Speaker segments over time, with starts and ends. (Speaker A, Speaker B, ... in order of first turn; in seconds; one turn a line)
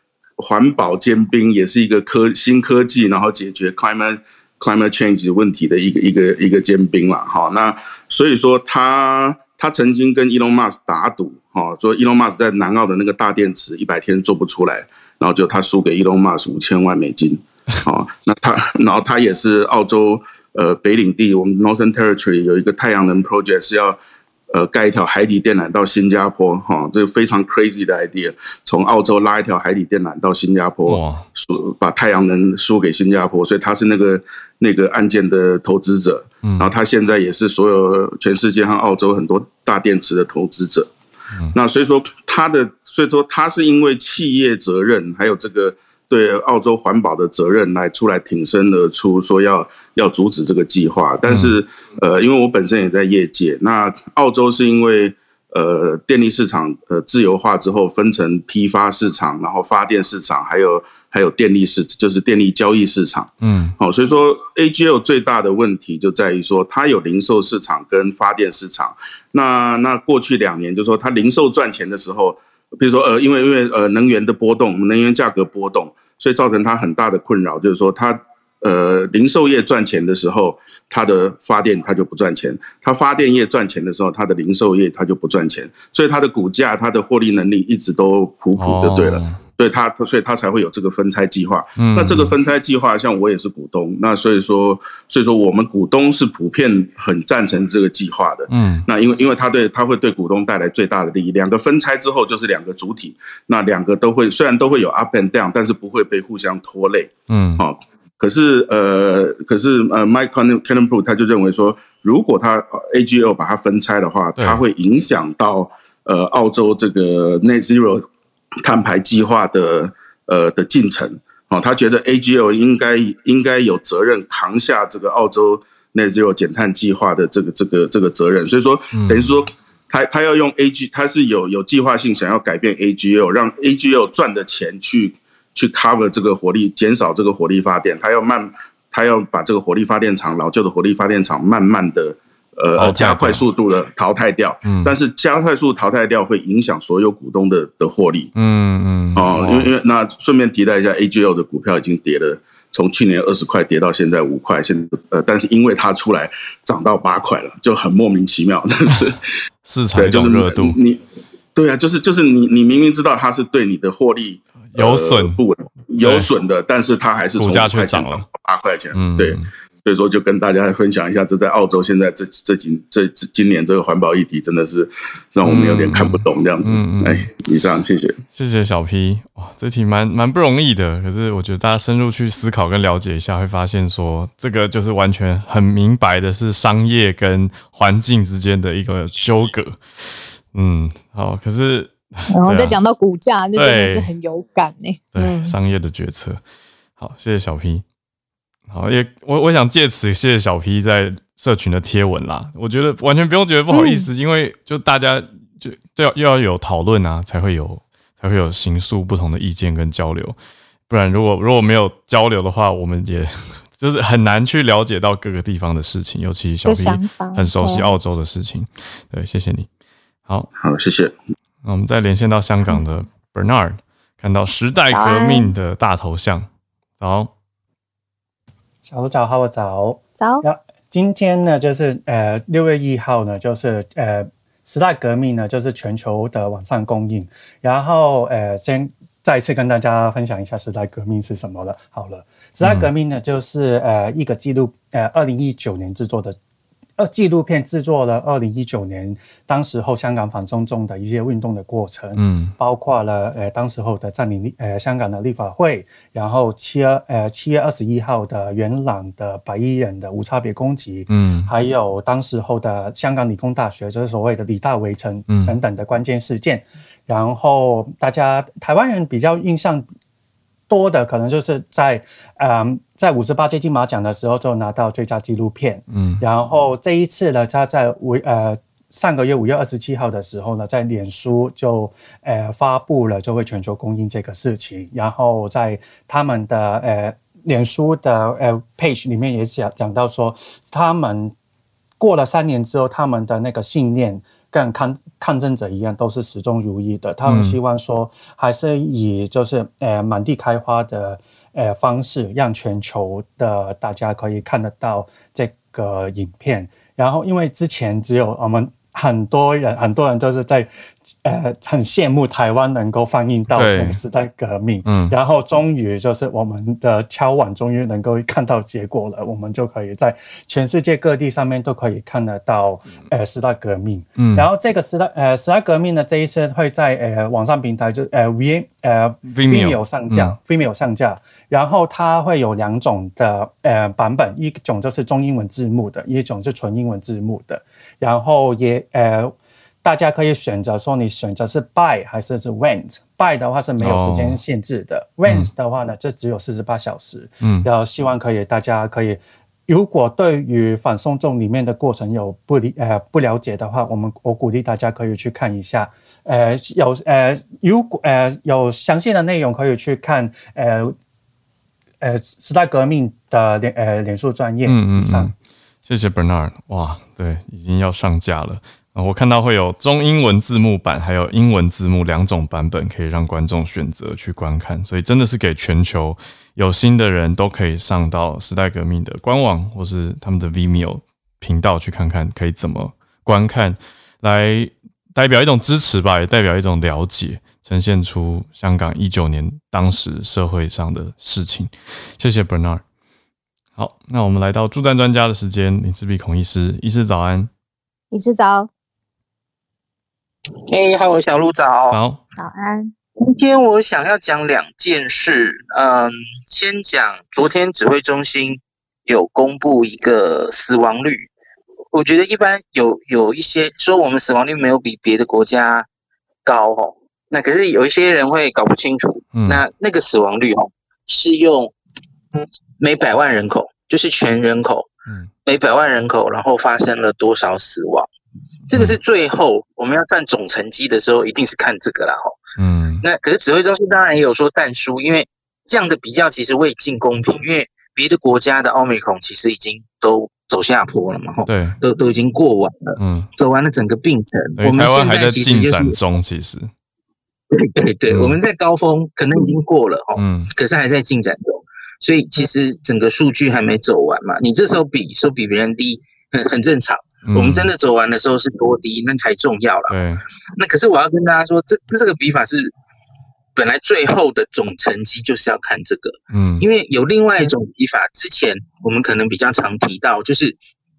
Speaker A: 0.4-24.0
Speaker A: 24.5-40.9
Speaker B: 30.9-31.2
Speaker B: 36.4-36.7
Speaker A: 41.5-118.0
Speaker B: 51.3-51.6
Speaker B: 63.4-63.8
Speaker B: 88.6-89.4
Speaker B: 91.8-92.3
Speaker B: 98.5-98.9
Speaker B: 107.3-107.6
Speaker B: 114.4-114.6
Speaker A: 118.6-148.3
Speaker B: 128.9-129.3
Speaker B: 142.8-143.4
Speaker B: 144.6-144.9
Speaker B: 148.3-149.7
Speaker A: 149.2-159.2
Speaker B: 159.0-160.8
Speaker A: 160.0-161.0
Speaker A: 161.5-178.2
Speaker B: 164.7-165.4
Speaker B: 166.0-166.3
Speaker B: 167.4-168.2
Speaker B: 168.9-169.5
Speaker B: 175.4-177.3
Speaker B: 178.3-192.8
Speaker C: 192.3-195.5
Speaker B: 193.5-194.1
Speaker B: 195.1-196.4
Speaker B: 197.0-197.8
Speaker B: 198.7-210.4
Speaker C: 203.7-204.1
Speaker B: 210.9-219.7
Speaker C: 216.6-217.9
Speaker A: 220.6-221.1
Speaker B: 221.6-226.5
Speaker C: 224.9-225.5
Speaker B: 227.0-227.3
Speaker D: 228.9-246.4
Speaker C: 230.2-230.4
Speaker B: 242.6-242.9
Speaker D: 247.0-269.9
Speaker B: 252.2-252.5
Speaker B: 261.1-261.5
Speaker B: 265.3-265.5
Speaker D: 270.7-291.3
Speaker B: 275.9-276.2
Speaker D: 292.0-310.7
Speaker B: 297.2-297.6
Speaker D: 311.2-361.0
Speaker B: 313.5-314.0
Speaker B: 314.8-315.1
Speaker B: 324.2-324.5
Speaker B: 329.3-330.4
Speaker B: 343.8-344.4
Speaker B: 347.4-347.7
Speaker D: 362.0-365.3
Speaker B: 364.6-365.3
Speaker B: 365.9-392.8
Speaker B: 393.8-397.5
Speaker C: 398.1-398.7
Speaker E: 400.7-402.0
Speaker B: 401.9-402.2
Speaker C: 402.4-402.9
Speaker E: 403.2-411.3
Speaker E: 411.9-415.9
Speaker E: 416.4-421.7
Speaker B: 419.3-419.6
Speaker E: 422.3-424.9
Speaker E: 425.4-428.1
Speaker E: 428.7-432.4
Speaker B: 428.7-429.0
Speaker B: 432.6-433.0
Speaker E: 433.0-445.9
Speaker B: 441.4-441.8
Speaker B: 443.0-443.3
Speaker B: 444.6-446.7
Speaker E: 447.5-460.0
Speaker B: 448.1-448.4
Speaker B: 450.1-450.5
Speaker B: 457.2-457.7
Speaker B: 459.9-460.2
Speaker E: 460.6-462.7
Speaker E: 463.5-470.6
Speaker B: 466.3-466.6